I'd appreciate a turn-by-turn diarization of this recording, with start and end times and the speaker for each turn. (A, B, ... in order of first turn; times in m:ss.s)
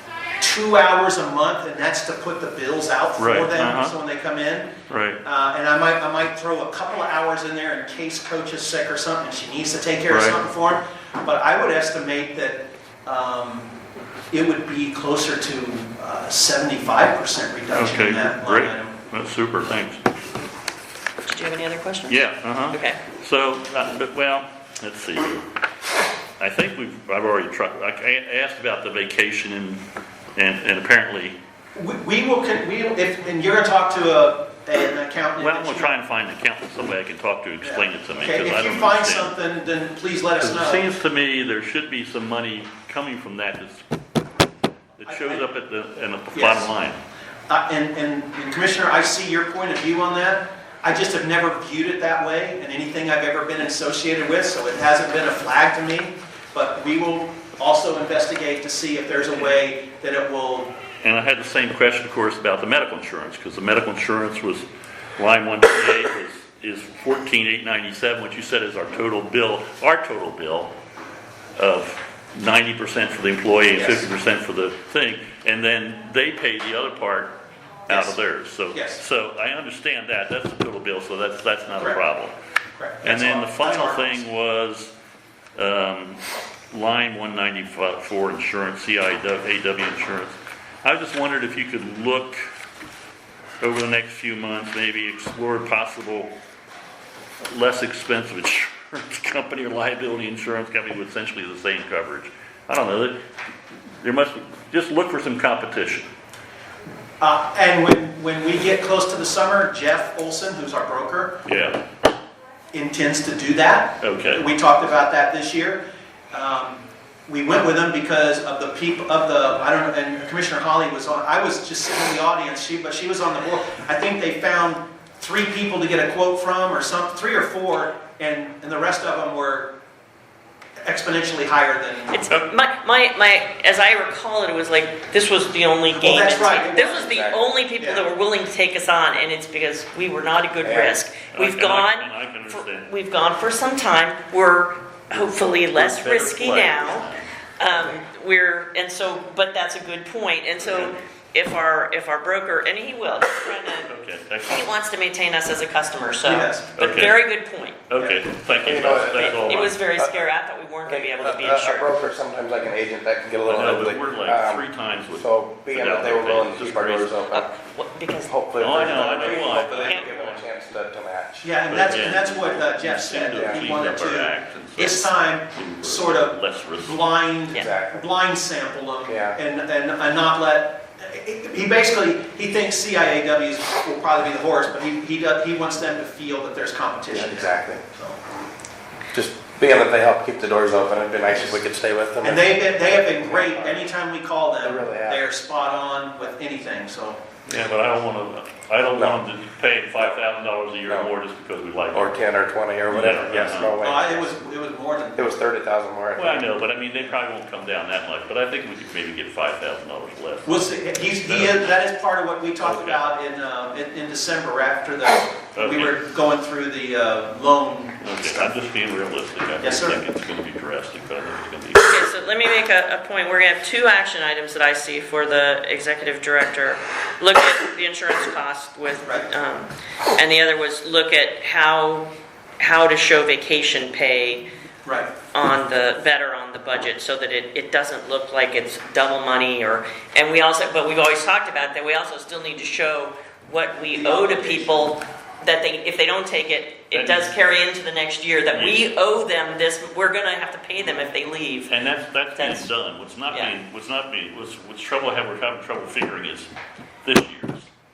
0:00.4-0:04.7 A
0:03.2-0:04.0 B
0:04.9-0:05.2 B
0:05.2-0:13.7 A
0:10.1-0:10.4 B
0:14.3-0:19.0 A
0:17.7-0:20.0 B
0:21.2-0:23.0 C
0:22.1-0:25.5 B
0:26.4-0:29.8 B
0:30.4-0:31.4 B
0:31.7-0:35.9 A
0:35.4-0:39.4 B
0:37.6-0:40.8 A
0:40.4-0:43.8 B
0:45.0-0:47.0 B
0:45.0-0:45.4 A
0:46.3-0:46.7 A
0:47.5-1:00.7 A
1:01.0-1:04.6 B
1:05.2-1:10.7 B
1:11.6-1:17.3 B
1:13.8-1:14.1 A
1:17.9-1:22.3 B
1:17.9-1:18.1 A
1:18.7-1:19.0 A
1:22.8-1:24.2 A
1:23.0-1:24.9 B
1:25.6-1:32.4 B
1:33.6-1:36.3 B
1:37.4-1:43.2 B
1:44.0-1:46.1 B
1:47.2-1:51.4 A
1:51.4-1:51.8 B
1:52.7-2:09.7 A
1:54.0-1:54.4 B
2:10.8-2:12.2 A
2:12.1-2:27.1 C
2:15.9-2:17.1 A
2:17.0-2:17.4 D
2:17.8-2:18.1 A
2:20.6-2:21.0 D
2:21.3-2:22.9 B
2:25.7-2:27.2 B
2:27.6-2:33.9 C
2:33.8-2:34.7 B
2:34.5-2:37.8 C
2:36.2-2:37.1 A
2:36.8-2:37.2 B
2:37.9-2:39.8 B
2:38.0-2:38.2 A
2:38.6-2:40.3 D
2:39.2-2:42.0 C
2:40.8-2:47.5 D
2:43.4-2:47.1 B
2:47.3-2:50.1 C
2:48.3-2:51.5 D
2:48.6-2:50.4 B
2:51.4-3:08.2 A
2:51.7-2:57.0 B
2:53.3-2:53.7 D
2:54.8-2:55.0 C
2:57.5-2:58.1 D
2:59.0-2:59.4 D
3:07.1-3:07.8 D
3:09.1-3:13.8 D
3:12.2-3:17.2 A
3:14.6-3:15.2 D
3:17.4-3:22.1 B
3:19.0-3:19.2 D
3:21.9-3:24.3 D
3:22.9-3:23.8 B
3:23.8-3:25.3 A
3:25.2-3:26.5 D
3:26.2-3:31.7 B
3:30.4-3:38.4 A
3:32.6-3:33.0 B
3:35.5-3:36.0 B
3:38.0-3:42.0 B
3:39.6-3:40.0 A
3:41.8-3:52.1 C
3:52.6-3:54.4 C
3:54.8-3:55.1 A
3:55.3-4:11.7 C
4:03.9-4:04.8 A
4:06.9-4:07.3 B
4:08.5-4:08.8 B
4:11.7-4:16.5 B
4:12.3-4:12.7 C
4:17.0-4:17.7 B